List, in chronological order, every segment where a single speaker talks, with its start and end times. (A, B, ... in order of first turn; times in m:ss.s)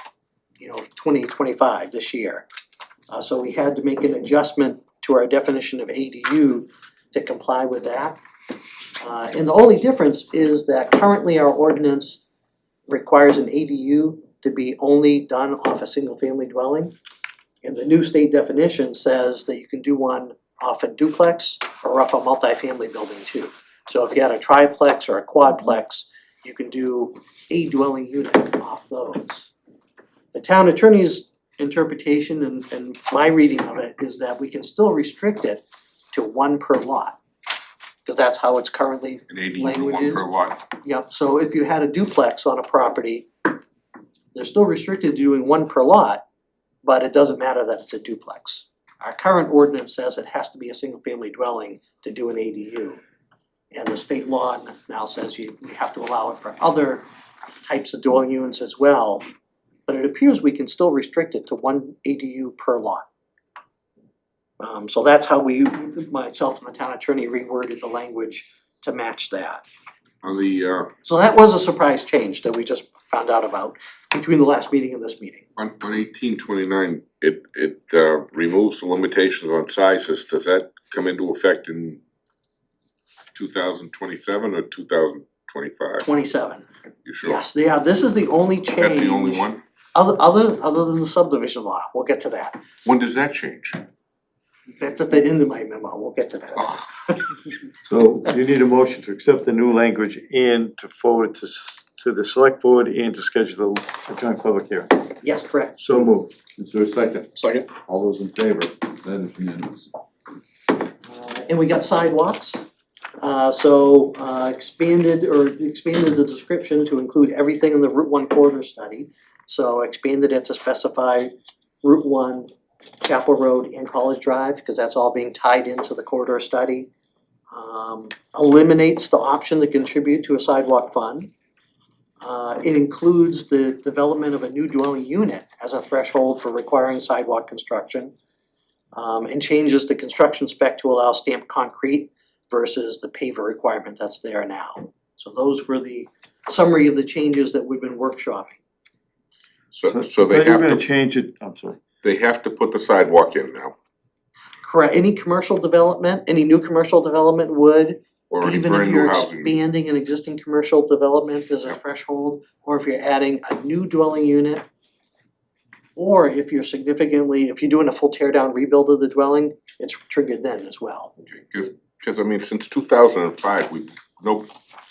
0:00.6-0:02.5 A
0:03.1-0:08.2 A
0:09.0-0:12.2 A
0:12.9-0:16.9 A
0:17.6-0:29.5 A
0:30.3-0:37.2 A
0:38.0-0:40.3 A
0:39.3-0:40.6 B
0:40.8-0:43.3 A
0:44.3-0:46.2 A
0:46.8-0:53.0 A
0:53.7-0:57.0 A
0:57.6-0:59.2 A
0:59.9-1:03.1 A
1:04.6-1:09.6 A
1:10.2-1:10.9 B
1:11.0-1:15.5 A
1:15.6-1:22.0 B
1:23.4-1:26.1 B
1:26.0-1:26.6 A
1:27.0-1:27.4 B
1:27.2-1:32.6 A
1:28.8-1:29.6 B
1:32.8-1:33.8 B
1:34.8-1:37.2 A
1:36.6-1:36.8 B
1:37.9-1:45.0 C
1:45.2-1:45.8 A
1:45.8-1:46.3 C
1:46.6-1:49.9 D
1:51.0-1:52.6 A
1:53.2-2:02.5 A
2:03.0-2:06.9 A
2:07.5-2:11.3 A
2:12.2-2:18.1 A
2:18.9-2:28.6 A
2:29.7-2:30.8 B
2:29.9-2:31.8 C
2:32.0-2:33.8 B
2:34.6-2:44.7 A
2:38.3-2:39.5 B
2:46.0-2:51.1 A
2:51.2-2:54.5 B